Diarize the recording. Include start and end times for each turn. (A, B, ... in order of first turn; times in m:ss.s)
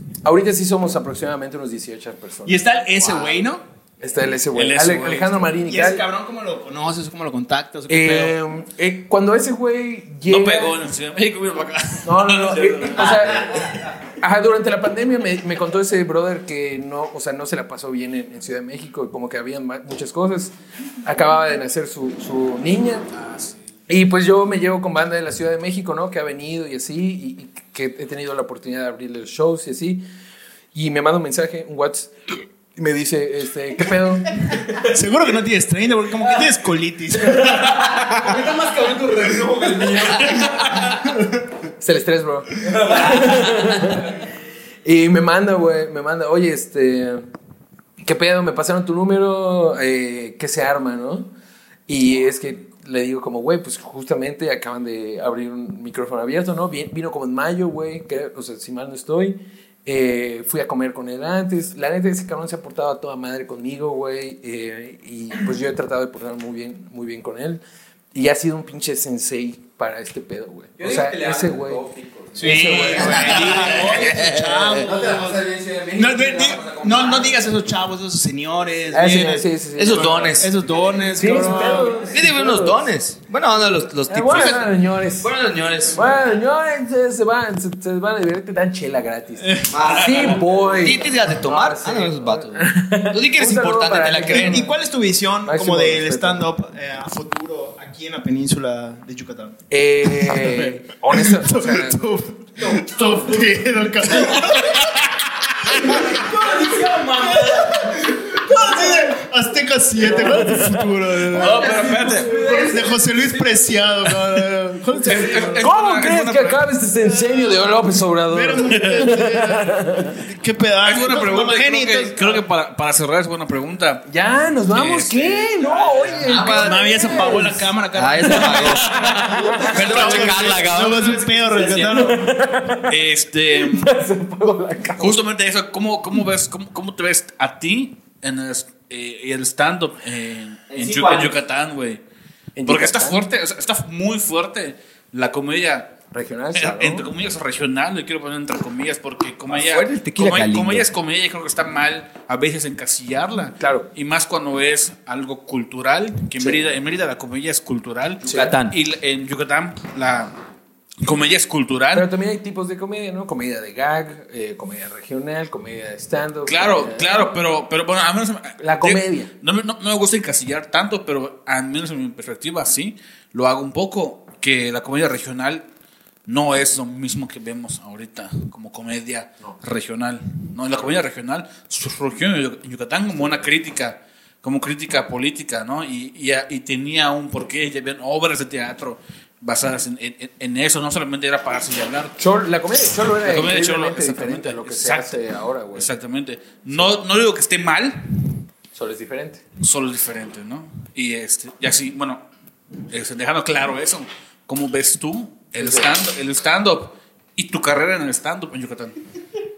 0:00.2-0:02.7 A
0:02.4-0:03.6 B
0:04.0-0:06.0 A
0:04.5-0:05.6 C
0:05.6-0:08.4 B
0:07.9-0:10.8 A
0:10.3-0:13.8 C
0:12.0-0:23.1 A
0:13.3-0:13.9 D
0:23.1-0:23.6 C
0:23.9-0:30.0 A
0:30.7-0:32.2 A
0:32.7-0:34.6 A
0:34.7-0:38.4 B
0:36.2-0:36.6 D
0:37.2-0:41.0 D
0:41.8-0:44.2 A
0:42.6-0:44.0 D
0:44.8-0:47.2 A
0:48.0-0:51.3 A
0:51.9-1:07.6 A
1:08.1-1:11.8 A
1:10.8-1:14.2 D
1:12.4-1:15.4 B
1:12.4-1:13.8 A
1:13.0-1:14.9 E
1:14.8-1:17.5 D
1:16.0-1:22.0 B
1:18.9-1:20.4 A
1:19.8-1:20.6 E
1:20.6-1:22.4 D
1:21.2-1:22.9 A
1:22.1-1:26.1 E
1:24.1-1:25.4 A
1:25.6-1:26.3 D
1:25.9-1:34.8 A
1:29.4-1:29.9 B
1:29.7-1:34.6 E
1:34.3-1:45.0 B
1:35.4-1:36.5 A
1:39.7-1:42.2 A
1:42.6-1:44.6 D
1:44.4-1:45.1 C
1:45.6-1:55.7 B
1:45.7-1:48.2 D
1:50.1-1:50.9 A
1:51.3-1:53.8 D
1:51.4-1:52.3 C
1:55.0-1:56.7 C
1:55.0-2:00.2 A
1:57.1-1:57.6 B
1:58.3-2:02.2 B
2:00.8-2:04.0 C
2:04.1-2:07.7 A
2:04.7-2:06.5 C
2:06.2-2:07.4 E
2:06.3-2:12.4 B
2:07.9-2:11.8 E
2:08.2-2:10.0 A
2:09.5-2:12.1 D
2:11.9-2:12.9 A
2:12.8-2:13.9 C
2:13.5-2:15.2 A
2:15.0-2:22.0 C
2:20.7-2:21.4 E
2:22.6-2:23.2 A
2:22.7-2:26.0 C
2:26.1-2:27.1 A
2:26.5-2:40.3 C
2:29.5-2:30.9 E
2:33.6-2:33.9 A
2:38.2-2:38.8 E
2:41.0-2:42.1 C
2:41.9-2:47.3 A
2:46.5-2:55.7 C
2:48.6-2:49.3 A
2:56.2-3:12.2 C
3:12.2-3:15.9 A
3:13.0-3:15.2 C
3:15.7-3:18.0 C
3:16.7-3:17.0 A
3:18.7-3:19.4 A
3:19.6-3:22.3 C
3:22.9-3:29.0 C
3:25.6-3:25.9 A